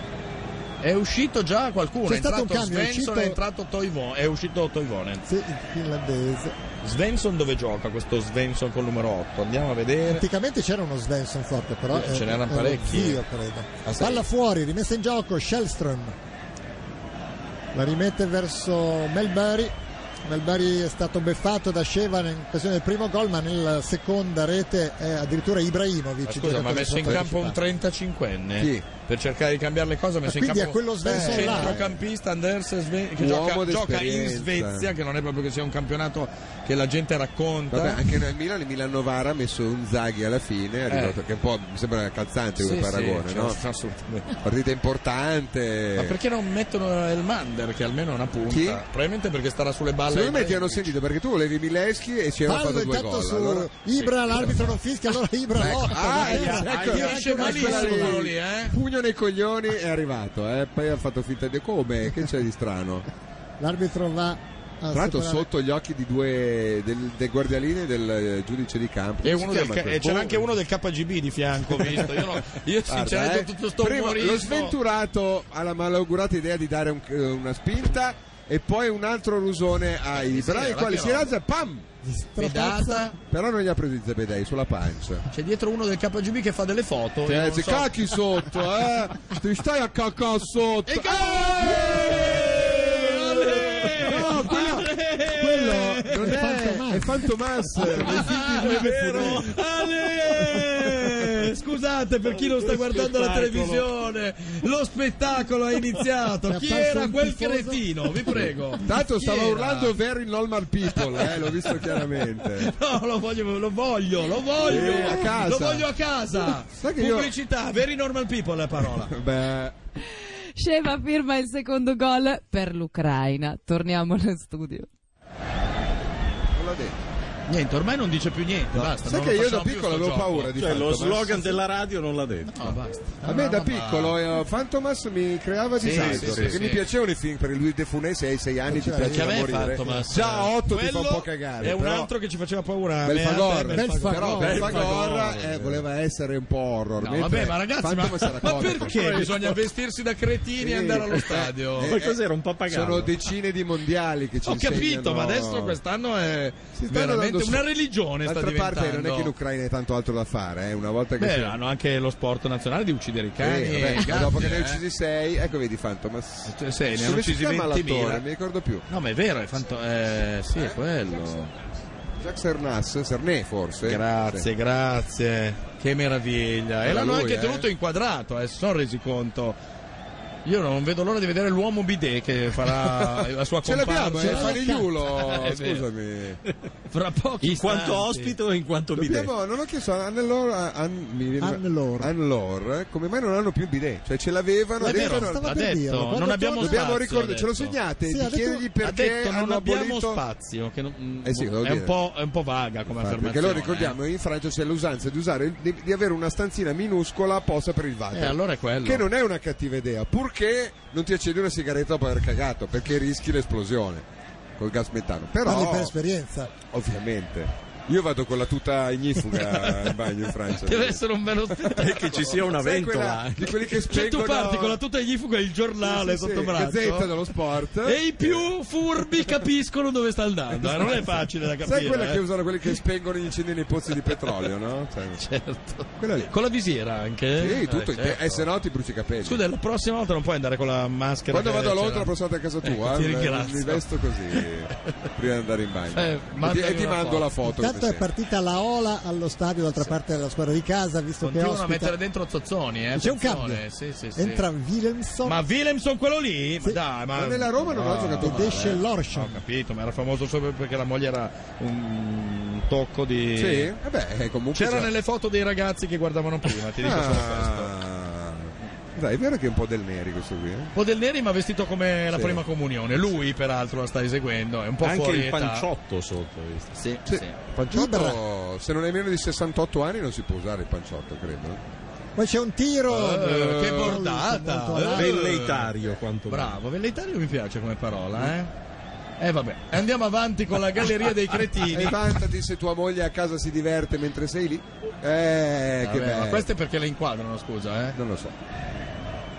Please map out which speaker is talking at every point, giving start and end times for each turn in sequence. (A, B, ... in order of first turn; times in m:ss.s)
0:00.8-0:05.2 A
0:02.1-0:03.4 B
0:05.3-0:06.6 B
0:06.8-0:10.2 A
0:10.1-0:16.2 B
0:11.9-0:13.2 A
0:13.8-0:14.2 A
0:17.7-0:27.6 B
0:26.2-0:38.0 A
0:28.6-0:28.8 C
0:30.2-0:31.8 B
0:31.0-0:32.0 C
0:33.2-0:34.9 C
0:37.7-0:43.6 C
0:40.9-0:41.2 A
0:42.6-0:44.3 A
0:44.4-0:46.2 C
0:46.0-0:50.9 A
0:48.5-0:48.8 C
0:50.1-0:53.7 C
0:52.4-0:58.2 B
0:55.6-1:03.1 C
0:55.9-0:58.8 A
0:56.6-0:57.5 D
1:03.6-1:05.5 B
1:04.9-1:10.4 C
1:09.2-1:14.8 A
1:11.8-1:12.2 C
1:12.9-1:21.9 C
1:20.2-1:21.3 A
1:22.0-1:23.1 B
1:22.4-1:23.2 A
1:23.3-1:25.3 C
1:25.3-1:27.9 A
1:27.3-1:39.5 C
1:30.9-1:36.5 A
1:36.0-1:37.2 B
1:37.7-1:50.0 A
1:38.8-1:39.5 D
1:42.4-1:43.9 D
1:46.5-1:48.4 B
1:48.8-1:52.7 C
1:51.0-1:59.1 A
1:54.6-1:57.3 C
1:59.0-1:59.8 C
2:00.6-2:04.9 E
2:06.5-2:07.0 C
2:07.5-2:10.6 A
2:08.7-2:11.4 C
2:10.6-2:12.8 D
2:12.5-2:14.2 A
2:13.2-2:22.1 C
2:15.8-2:16.8 A
2:15.9-2:16.6 D
2:18.7-2:19.7 B
2:19.0-2:25.8 A
2:23.0-2:29.1 C
2:23.7-2:24.8 B
2:24.5-2:25.4 D
2:27.0-2:32.0 A
2:28.4-2:29.7 D
2:30.6-2:35.8 C
2:31.8-2:33.1 D
2:34.4-2:39.3 A
2:36.7-2:37.7 C
2:38.2-2:41.6 C
2:41.2-2:44.8 A
2:43.4-2:48.9 C
2:46.5-2:48.2 A
2:48.9-2:51.5 A
2:50.6-2:51.4 C
2:52.2-2:54.5 C
2:53.8-2:59.6 A
2:56.8-2:57.7 C
3:00.4-3:05.9 A
3:03.6-3:06.4 C
3:04.2-3:04.9 B
3:06.9-3:08.4 A
3:07.4-3:09.3 D
3:09.0-3:15.5 C
3:11.4-3:12.1 B
3:14.8-3:16.8 B
3:14.8-3:17.8 A
3:16.6-3:20.2 C
3:18.1-3:18.7 B
3:18.8-3:24.0 A
3:21.2-3:21.9 C
3:22.9-3:35.9 C
3:28.1-3:29.0 A
3:35.4-3:36.5 B
3:36.6-3:41.0 C
3:39.3-3:40.0 A
3:40.5-3:42.4 A
3:41.7-3:44.8 C
3:41.8-3:43.6 D
3:43.7-3:47.2 A
3:45.8-3:48.5 C
3:47.8-3:52.8 A
3:50.6-3:51.1 C
3:51.6-3:55.2 C
3:55.2-3:58.5 A
3:56.0-3:56.3 C
3:57.4-3:59.4 C
3:59.2-4:02.1 A
4:01.3-4:08.0 C
4:02.6-4:04.9 A
4:05.9-4:07.3 A
4:07.4-4:12.0 B
4:11.2-4:14.5 A
4:12.9-4:13.6 B
4:14.2-4:15.4 B
4:15.2-4:23.8 A
4:17.1-4:18.8 C
4:18.2-4:19.4 B
4:23.4-4:24.9 C
4:24.5-4:27.7 A
4:26.8-4:30.7 C
4:30.8-4:35.7 A
4:32.1-4:32.4 C
4:34.8-4:36.8 D
4:36.8-4:37.4 A
4:37.1-4:41.6 C
4:37.7-4:38.2 B
4:42.2-4:45.2 B
4:42.9-4:45.7 A
4:45.0-4:46.6 D
4:46.3-4:48.5 A
4:49.2-4:52.0 A
4:51.7-4:56.5 C
4:55.8-4:58.0 A
4:58.0-4:58.4 C